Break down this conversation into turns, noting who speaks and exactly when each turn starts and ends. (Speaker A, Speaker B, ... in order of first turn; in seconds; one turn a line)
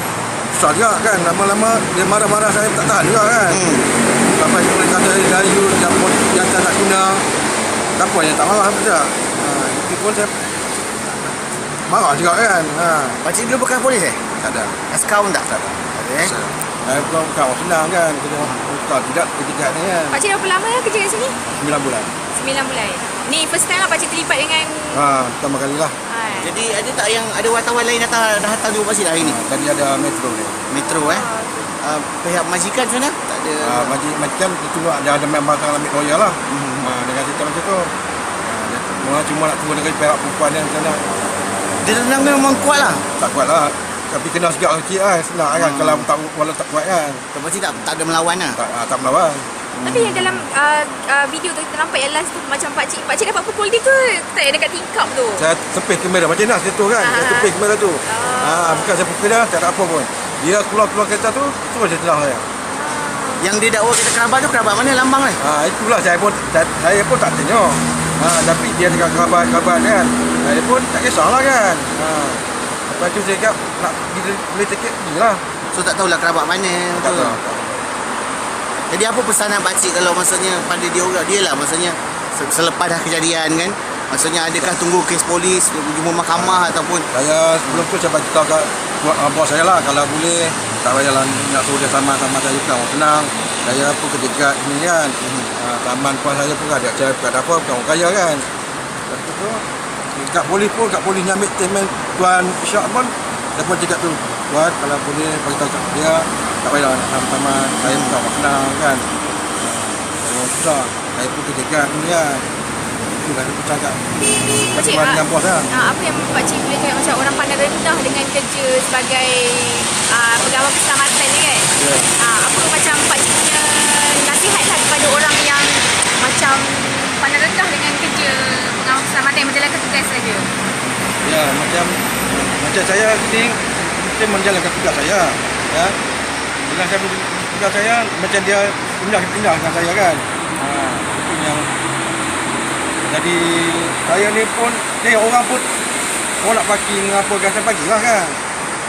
Speaker A: 0.5-3.6
Speaker B: 3.5-3.9
Speaker A: 4.3-7.3
Speaker A: 8.0-10.4
Speaker A: 11.8-13.2
Speaker B: 13.2-14.2
Speaker A: 14.4-14.8
Speaker B: 14.9-16.3
Speaker A: 15.5-20.2
Speaker C: 20.1-21.4
Speaker A: 21.5-22.1
Speaker C: 22.3-25.1
Speaker A: 24.9-25.9
Speaker C: 26.1-26.6
Speaker B: 26.4-29.4
Speaker A: 29.2-30.7
Speaker B: 30.7-31.2
Speaker C: 30.8-31.8
Speaker B: 31.8-34.0
Speaker A: 33.6-37.9
Speaker B: 36.5-36.9
Speaker A: 38.4-41.0
Speaker B: 41.8-43.0
Speaker A: 43.2-47.2
Speaker B: 45.5-46.1
Speaker B: 47.3-48.6
Speaker A: 48.6-49.5
Speaker B: 49.7-50.4
Speaker C: 49.8-55.5
Speaker A: 55.4-62.5
Speaker C: 57.0-59.0
Speaker C: 62.7-63.5
Speaker B: 63.4-65.4
Speaker A: 65.4-75.4
Speaker B: 75.7-77.4
Speaker A: 77.0-77.8
Speaker B: 78.9-87.1
Speaker A: 86.3-98.5
Speaker B: 95.2-95.5
Speaker A: 99.1-112.5
Speaker B: 107.8-108.2
Speaker A: 113.1-114.0
Speaker A: 114.7-115.7
Speaker C: 114.7-130.5
Speaker A: 121.8-122.1
Speaker A: 131.2-136.0
Speaker A: 136.7-141.7
Speaker A: 143.1-145.7
Speaker A: 146.4-148.4